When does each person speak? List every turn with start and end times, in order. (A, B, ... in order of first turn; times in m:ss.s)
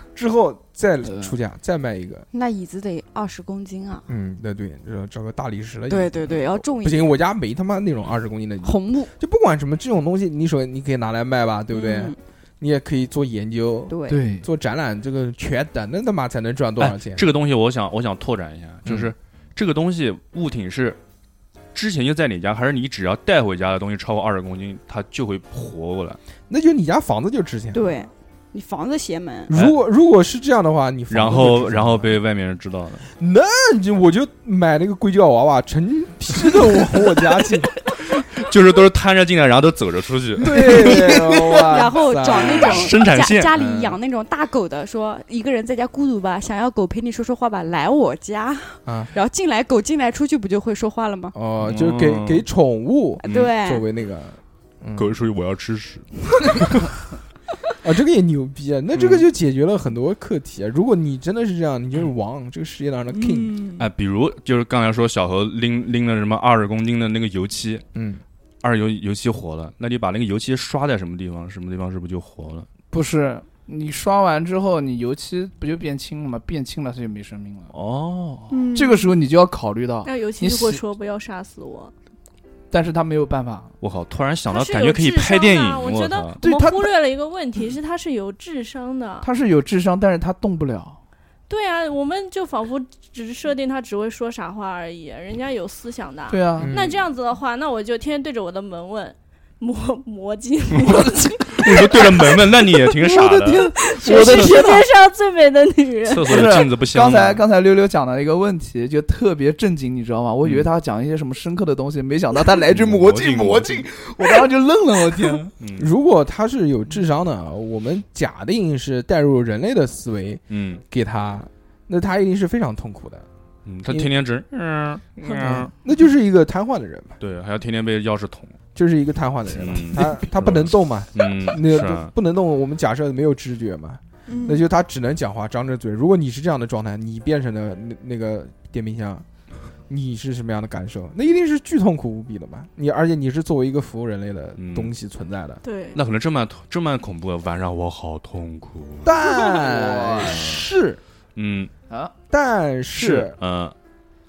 0:00.2-0:02.3 A
0:01.0-0:01.4 B
0:02.3-0:04.0 C
0:04.1-0:17.2 A
0:05.9-0:07.1 C
0:08.6-0:09.1 C
0:11.7-0:12.2 C
0:13.9-0:14.2 C
0:14.1-0:14.5 B
0:16.8-0:21.0 D
0:18.9-0:19.1 A
0:21.7-0:26.2 D
0:26.5-0:27.9 A
0:27.7-0:29.5 C
0:29.5-0:32.2 A
0:31.1-0:33.1 D
0:33.2-0:37.7 A
0:38.4-0:40.9 D
0:40.4-0:43.0 A
0:40.5-0:41.7 B
0:41.4-0:51.3 C
0:42.2-0:43.5 D
0:43.6-0:44.0 A
0:48.9-0:49.1 A
0:51.3-0:55.2 A
0:51.6-0:52.5 D
0:53.2-0:53.8 C
0:53.2-0:53.5 D
0:55.0-0:56.9 D
0:57.8-1:03.6 A
0:59.0-0:59.2 D
1:03.1-1:03.9 C
1:03.8-1:07.8 D
1:08.0-1:08.2 A
1:08.6-1:12.7 D
1:12.9-1:17.7 B
1:17.7-1:18.5 D
1:18.5-1:19.1 E
1:18.7-1:20.8 B
1:20.0-1:21.9 E
1:22.7-1:23.7 B
1:23.8-1:26.4 D
1:24.5-1:29.3 E
1:26.4-1:26.9 B
1:29.2-1:31.0 B
1:31.5-1:42.4 E
1:36.3-1:36.8 B
1:36.6-1:37.0 A
1:41.5-1:44.6 D
1:43.1-1:44.8 B
1:43.2-1:46.6 E
1:44.1-1:44.8 C
1:46.0-1:47.4 D
1:46.3-1:55.5 B
1:50.4-1:50.7 D
1:52.7-1:53.9 D
1:55.6-1:55.9 D
1:55.8-2:03.3 A
2:00.5-2:00.8 D
2:03.7-2:05.7 D
2:05.4-2:07.2 A
2:07.2-2:08.6 D
2:08.8-2:19.2 A
2:09.5-2:12.1 D
2:14.3-2:14.6 C
2:19.9-2:25.6 A
2:24.6-2:24.9 D
2:25.6-2:26.0 E
2:25.9-2:29.2 D
2:29.0-2:31.0 A
2:29.2-2:30.4 B
2:30.3-2:30.7 D
2:31.4-2:31.7 D
2:32.3-2:33.4 A
2:33.0-2:33.8 D